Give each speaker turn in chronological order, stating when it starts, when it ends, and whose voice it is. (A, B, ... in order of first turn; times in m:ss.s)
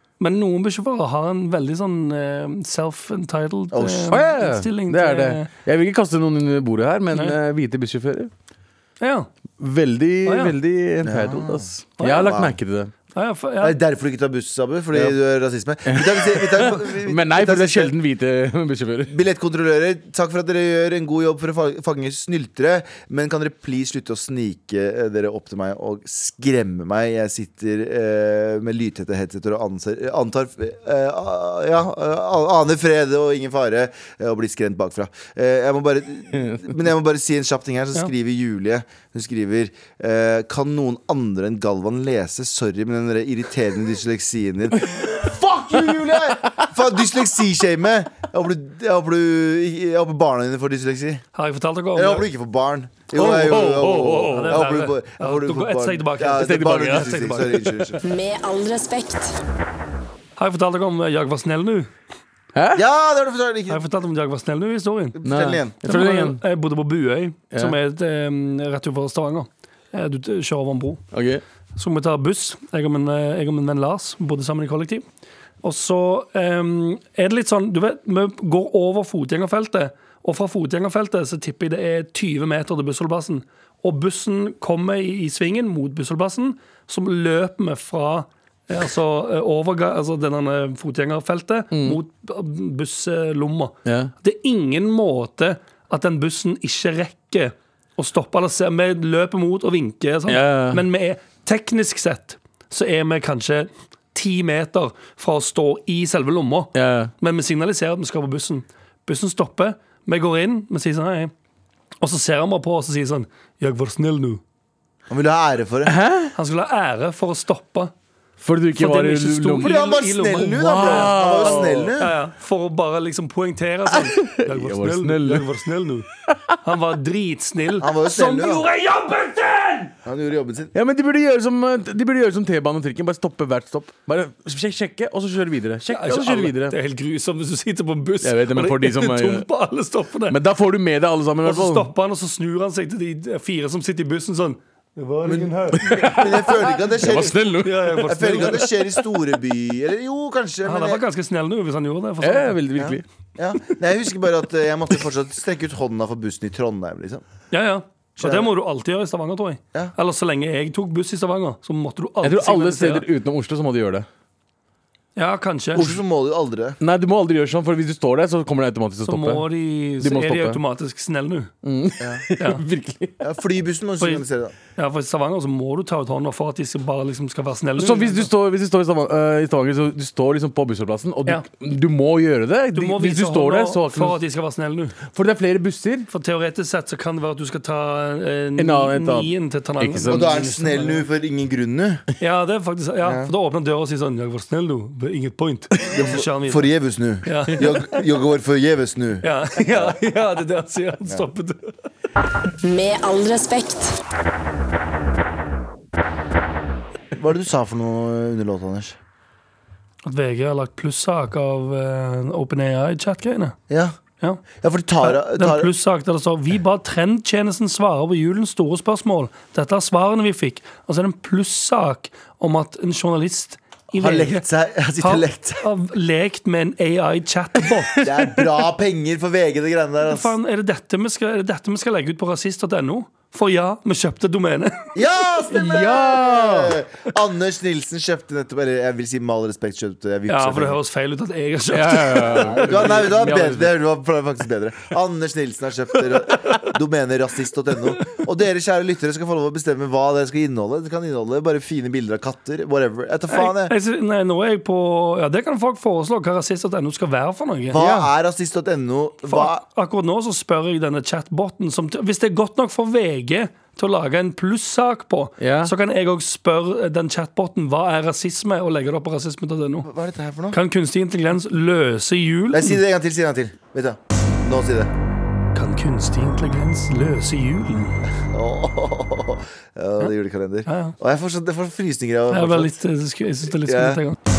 0:00.2-0:05.5 A
0:03.7-0:04.2 B
0:04.1-0:08.3 C
0:09.0-0:09.3 A
0:09.6-0:12.9 C
0:10.2-0:10.5 A
0:11.0-0:11.7 B
0:12.0-0:12.3 A
0:12.2-0:12.6 B
0:13.1-0:13.8 A
0:13.6-0:17.9 B
0:15.8-0:19.2 C
0:19.1-0:51.2 B
0:36.4-0:36.7 C
0:44.8-0:46.8 C
0:51.3-0:52.3 A
0:51.9-0:58.0 B
0:53.1-0:54.5 C
0:53.2-0:57.5 A
0:56.3-0:57.9 C
0:58.0-0:59.4 D
1:00.4-1:01.9 A
1:02.5-1:02.8 C
1:02.7-1:03.8 B
1:03.7-1:05.2 A
1:05.2-1:05.7 B
1:05.2-1:06.4 C
1:05.8-1:11.0 A
1:07.5-1:07.8 C
1:11.1-1:11.4 C
1:11.8-1:15.0 A
1:15.6-1:51.3 A
1:31.7-1:32.0 C
1:33.8-1:34.1 C
1:40.3-1:40.8 C
1:46.7-1:47.1 C
1:52.0-1:54.4 A
1:55.1-1:56.0 B
1:55.8-1:56.3 C
1:56.3-1:57.9 A
1:58.4-1:59.8 C
1:58.7-2:06.1 A
1:59.6-2:02.1 B
2:00.6-2:02.0 C
2:04.0-2:05.5 C
2:06.3-2:06.5 C
2:06.6-2:09.9 A
2:07.8-2:08.6 B
2:10.0-2:10.7 B
2:10.7-2:16.8 C
2:15.9-2:20.4 A
2:18.2-2:19.5 C
2:20.3-2:21.9 C
2:21.4-2:26.6 A
2:25.2-2:27.4 B
2:25.8-2:28.4 C
2:27.6-2:28.9 A
2:28.0-2:31.0 B
2:30.6-2:32.6 A
2:32.2-2:33.0 C
2:32.8-2:37.2 B
2:37.5-2:43.0 A
2:38.2-2:38.5 B
2:42.2-2:44.1 C
2:45.2-2:45.9 A
2:45.7-2:46.8 B
2:46.8-2:49.4 C
2:49.0-2:51.5 A
2:50.0-2:50.6 C
2:51.6-2:53.2 C
2:52.4-2:52.6 A
2:53.2-2:54.5 B
2:54.8-2:58.3 A
2:57.8-3:04.2 C
3:02.7-3:05.0 A
3:05.1-3:06.1 C
3:06.1-3:11.0 A
3:08.6-3:10.4 C
3:10.1-3:12.0 B
3:12.2-3:16.7 A
3:13.0-3:13.3 B
3:15.8-3:20.0 B
3:17.2-3:18.0 A
3:19.2-3:21.7 A
3:22.6-3:24.0 D
3:27.1-3:29.0 B
3:30.0-3:33.6 A
3:33.7-3:33.9 B
3:34.6-3:35.7 B
3:35.0-3:44.4 A
3:43.9-3:45.6 B
3:45.0-3:48.2 A
3:48.0-3:50.3 B
3:50.0-3:55.0 A
3:54.9-4:00.8 B
3:55.5-3:56.8 C
4:00.3-4:02.9 A
4:01.7-4:03.7 C
4:02.4-4:13.7 B
4:13.3-4:18.1 A
4:17.7-4:19.6 B
4:19.3-4:29.9 A
4:25.4-4:25.7 C
4:29.8-4:30.6 B
4:30.5-4:32.8 A
4:32.5-4:34.9 B
4:35.5-4:38.0 A
4:38.1-4:42.8 B
4:40.7-4:41.0 A
4:42.3-4:44.2 A
4:43.6-4:44.0 B